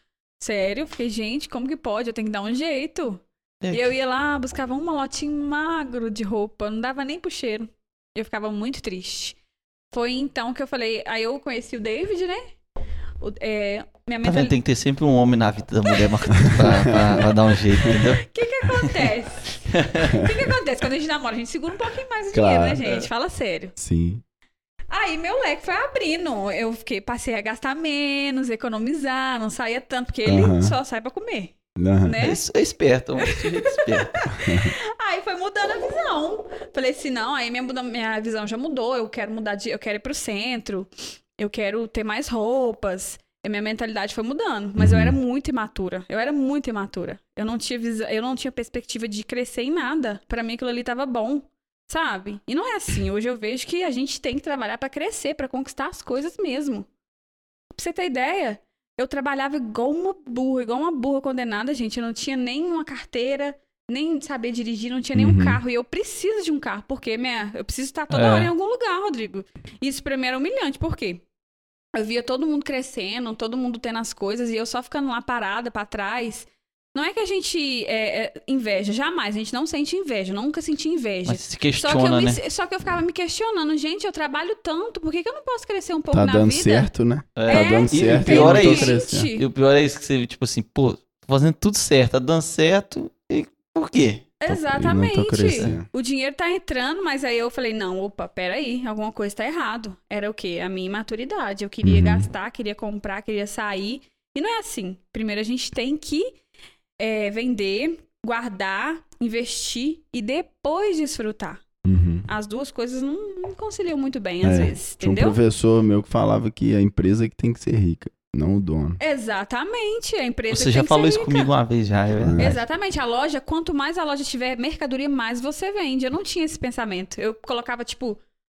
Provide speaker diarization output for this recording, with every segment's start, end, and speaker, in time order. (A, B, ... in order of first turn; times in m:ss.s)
0:00.4-0:09.4 A
0:03.6-0:03.9 B
0:09.9-0:12.5 A
0:13.2-0:14.6 A
0:14.2-0:19.1 B
0:15.8-0:16.7 A
0:16.6-0:17.2 C
0:17.8-0:23.8 A
0:19.7-0:20.1 B
0:20.1-0:20.4 C
0:22.3-0:22.8 C
0:23.8-0:24.2 C
0:24.9-0:32.4 A
0:30.2-0:30.8 C
0:31.8-0:32.2 C
0:32.2-0:34.2 B
0:33.2-0:56.9 A
0:34.3-0:34.7 C
0:44.8-0:45.2 C
0:57.7-1:11.2 A
1:05.1-1:05.6 C
1:08.1-1:08.5 B
1:11.9-1:26.9 A
1:21.2-1:22.4 B
1:26.1-1:29.3 C
1:27.4-1:34.3 B
1:27.5-1:29.4 A
1:34.4-1:46.3 A
1:34.5-1:35.8 C
1:41.8-1:42.3 C
1:47.0-1:51.6 A
1:51.8-1:52.3 C
1:52.3-1:55.4 A
1:54.4-1:59.0 C
1:59.0-2:01.5 A
2:00.5-2:02.6 B
2:02.2-2:02.6 C
2:02.4-2:08.2 A